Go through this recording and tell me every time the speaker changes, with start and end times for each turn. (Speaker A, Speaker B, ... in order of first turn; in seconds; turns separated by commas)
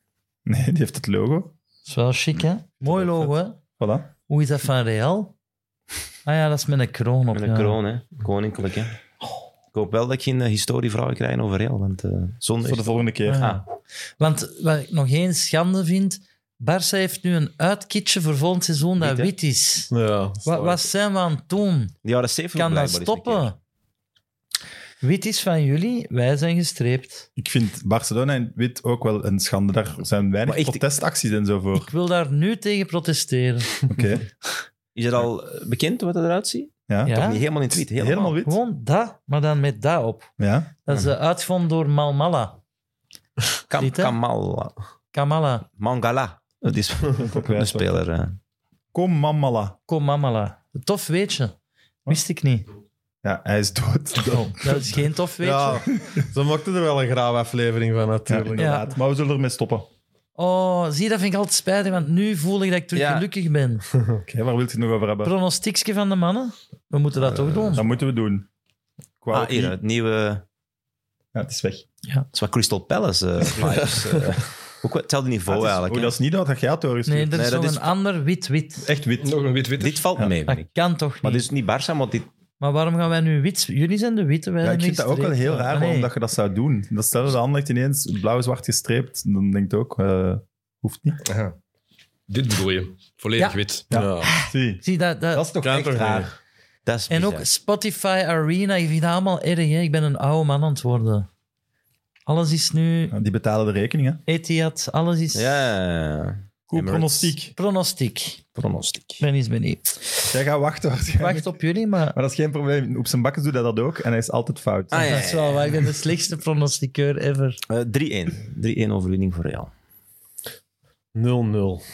Speaker A: 0.5-1.5, Speaker B: 1.9-3.6, Speaker A: 3.8-4.1, Speaker B: 4.3-5.3, Speaker B: 6.2-7.8, Speaker C: 7.3-9.0, Speaker C: 9.7-13.6, Speaker A: 12.6-13.5, Speaker B: 13.2-13.6, Speaker B: 14.2-19.9, Speaker C: 19.0-19.3, Speaker D: 19.9-20.8, Speaker B: 20.4-21.9, Speaker C: 22.0-23.5, Speaker B: 22.5-23.6, Speaker B: 25.0-27.3, Speaker A: 27.4-31.9, Speaker C: 30.4-30.8, Speaker B: 31.8-33.9, Speaker A: 33.9-34.3, Speaker C: 34.9-38.4, Speaker A: 36.9-37.2, Speaker B: 37.0-37.4, Speaker A: 37.9-38.6, Speaker B: 38.4-42.6, Speaker A: 40.4-40.7, Speaker C: 43.7-44.7, Speaker B: 43.8-44.1, Speaker B: 45.1-45.7, Speaker C: 45.8-48.4, Speaker A: 47.3-47.9, Speaker A: 48.9-49.8, Speaker B: 49.9-51.5, Speaker B: 52.1-52.6, Speaker A: 53.2-55.0, Speaker B: 54.2-55.9, Speaker D: 55.4-58.6, Speaker A: 56.0-56.2, Speaker A: 58.3-59.9, Speaker B: 58.6-58.9, Speaker B: 60.4-63.9, Speaker C: 62.9-63.3, Speaker A: 64.2-65.3, Speaker B: 65.2-67.8, Speaker A: 67.6-68.5, Speaker A: 69.2-69.8, Speaker C: 69.3-70.4, Speaker A: 71.3-71.8, Speaker C: 72.3-76.2, Speaker D: 73.6-74.3, Speaker A: 75.5-77.4, Speaker B: 77.0-78.9, Speaker C: 77.3-77.9, Speaker A: 78.8-79.4, Speaker E: 79.2-80.1, Speaker C: 79.8-80.7, Speaker B: 80.5-81.4, Speaker C: 81.2-82.3, Speaker B: 82.6-86.1, Speaker A: 84.6-91.2, Speaker E: 91.2-91.5, Speaker E: 92.3-93.9, Speaker D: 93.9-94.3, Speaker A: 93.9-96.3, Speaker C: 94.2-94.5, Speaker B: 94.8-95.5, Speaker D: 95.6-96.3, Speaker C: 96.8-97.5, Speaker B: 97.1-101.3, Speaker B: 102.2-103.1, Speaker A: 103.1-104.2, Speaker B: 104.3-105.6, Speaker C: 105.3-107.3, Speaker A: 106.7-107.5, Speaker B: 107.5-108.4, Speaker C: 108.5-109.2, Speaker B: 109.2-110.0, Speaker A: 110.3-111.6, Speaker B: 111.2-112.2, Speaker A: 112.1-115.2, Speaker C: 114.9-115.8, Speaker B: 115.0-117.6, Speaker C: 117.7-119.7, Speaker D: 121.1-121.8